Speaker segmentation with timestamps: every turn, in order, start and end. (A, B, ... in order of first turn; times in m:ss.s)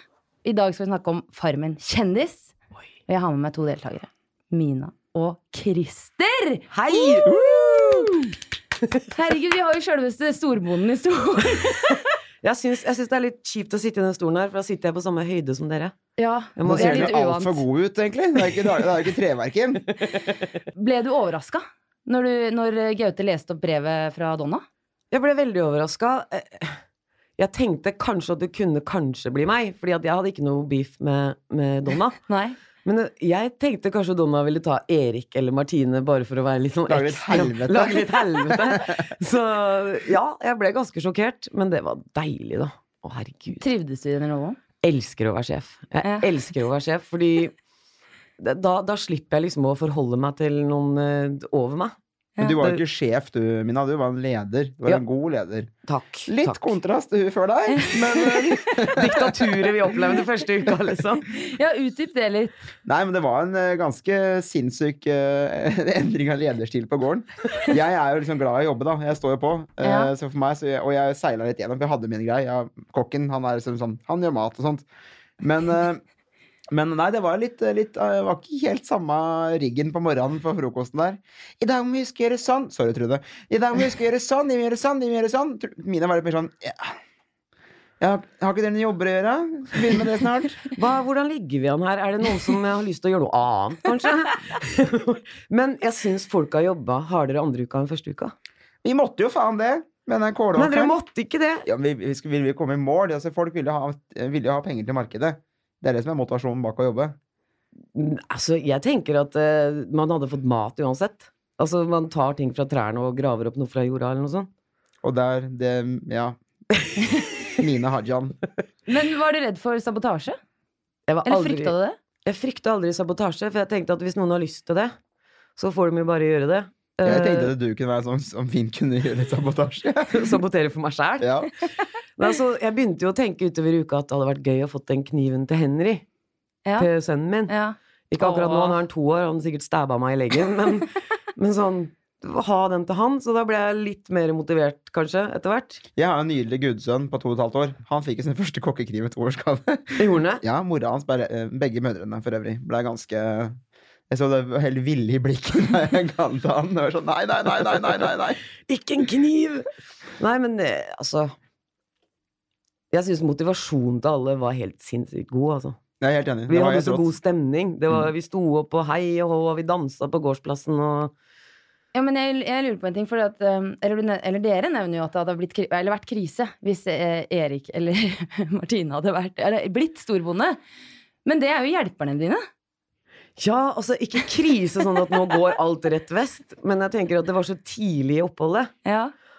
0:00.4-0:02.5 A
0:03.1-0:08.1 A
0:06.7-0:07.3 B
0:07.2-0:08.3 C
0:09.1-0:12.0 A
0:12.4-0:15.9 B
0:16.2-0:17.6 A
0:16.6-0:17.2 B
0:16.6-0:19.9 C
0:20.0-0:20.3 B
0:20.7-0:24.6 A
0:25.1-0:26.8 B
0:27.4-0:32.2 B
0:32.3-0:32.6 A
0:32.8-0:43.6 B
0:36.9-0:39.1 C
0:43.6-0:44.6 A
0:44.8-0:47.5 B
0:46.0-0:46.3 A
0:48.4-0:51.9 B
0:52.4-0:55.7 C
0:55.9-0:56.8 B
0:56.2-0:59.7 C
0:57.7-0:58.6 A
0:58.8-1:01.2 B
1:01.3-1:02.5 A
1:02.8-1:14.8 C
1:09.8-1:10.1 A
1:15.4-1:16.0 C
1:16.7-1:27.0 C
1:28.0-1:30.7 C
1:30.7-1:38.3 B
1:38.8-1:40.9 C
1:40.6-1:41.6 B
1:41.6-1:47.2 C
1:47.9-1:54.5 B
1:55.0-1:56.4 C
1:57.5-1:58.4 C
1:58.9-2:00.4 A
2:01.1-2:01.7 B
2:01.2-2:02.0 A
2:02.2-2:04.9 B
2:05.6-2:07.5 B
2:07.0-2:10.4 C
2:10.1-2:11.5 B
2:11.2-2:11.5 C
2:12.2-2:16.0 B
2:16.8-2:17.5 B
2:17.5-2:18.8 A
2:18.1-2:25.8 B
2:26.0-2:33.6 C
2:30.0-2:30.4 B
2:34.1-2:38.4 C
2:38.7-2:39.6 B
2:40.2-2:41.3 B
2:42.9-2:45.8 B
2:46.0-2:47.1 C
2:46.5-2:51.1 B
2:51.9-3:00.6 A
3:01.2-3:02.4 A
3:03.4-3:08.7 B
3:08.8-3:09.1 A